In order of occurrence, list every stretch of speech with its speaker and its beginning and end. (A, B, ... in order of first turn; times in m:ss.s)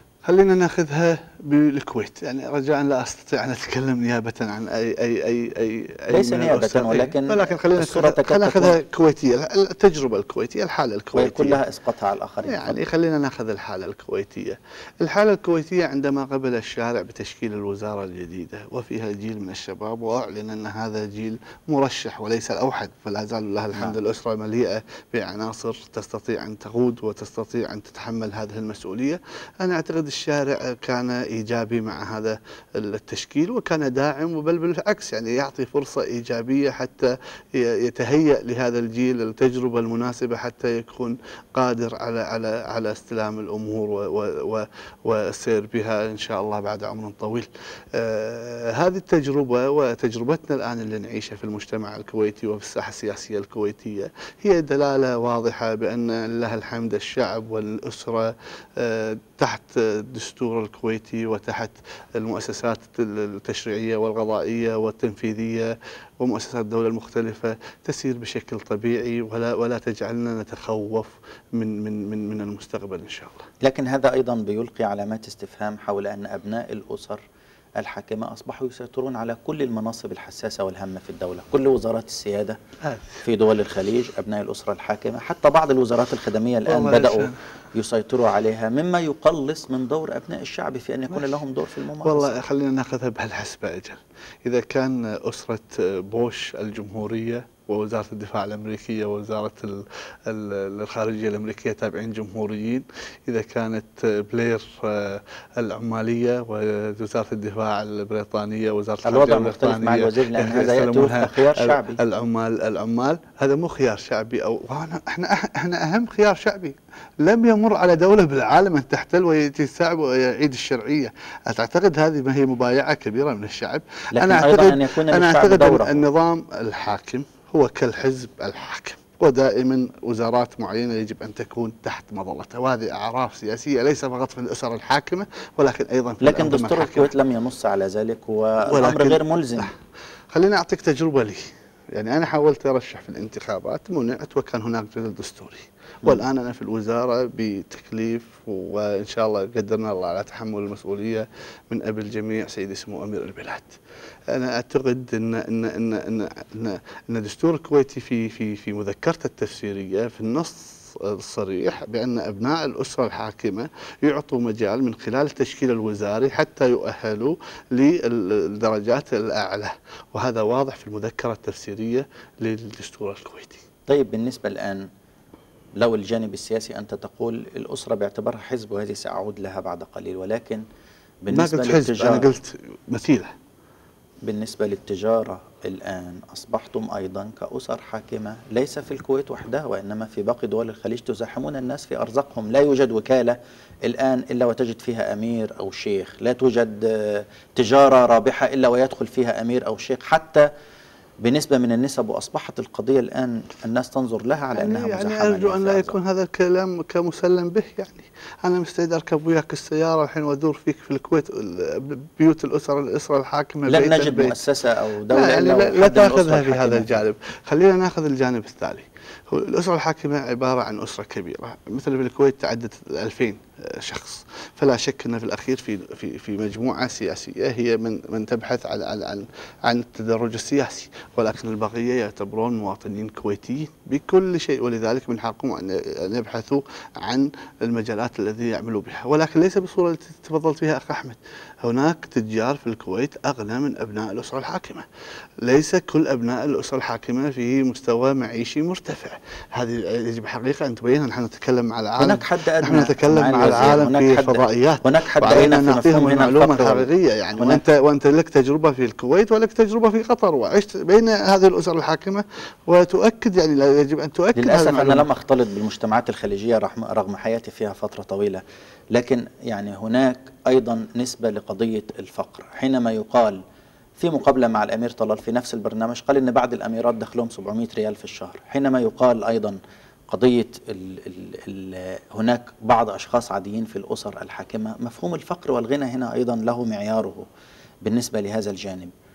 0:00.2-0:11.6 A
0:06.1-0:08.8 B
0:11.2-0:12.7 B
0:12.5-1:13.5 A
1:13.6-1:17.2 B
1:17.8-1:22.6 B
1:22.8-1:23.2 A
1:23.2-1:32.3 B
1:26.7-1:27.4 A
1:31.1-1:31.4 A
1:32.0-2:17.1 A
1:49.0-1:52.0 B
2:04.1-2:06.0 B
2:16.2-2:19.7 B
2:18.7-2:19.8 A
2:20.3-2:33.8 A
2:34.3-2:53.6 A
2:53.9-2:54.9 B
2:55.8-3:00.6 B
3:01.2-3:02.3 B
3:01.3-3:03.3 A
3:04.2-3:20.5 B
3:21.2-3:26.0 B
3:24.5-3:34.4 A
3:33.7-3:37.0 B
3:35.1-4:04.9 A
4:05.4-4:25.1 A
4:12.0-4:17.6 B
4:24.4-4:28.4 B
4:28.9-4:33.4 B
4:34.0-4:39.6 B
4:40.1-4:47.3 B
4:47.8-4:48.9 B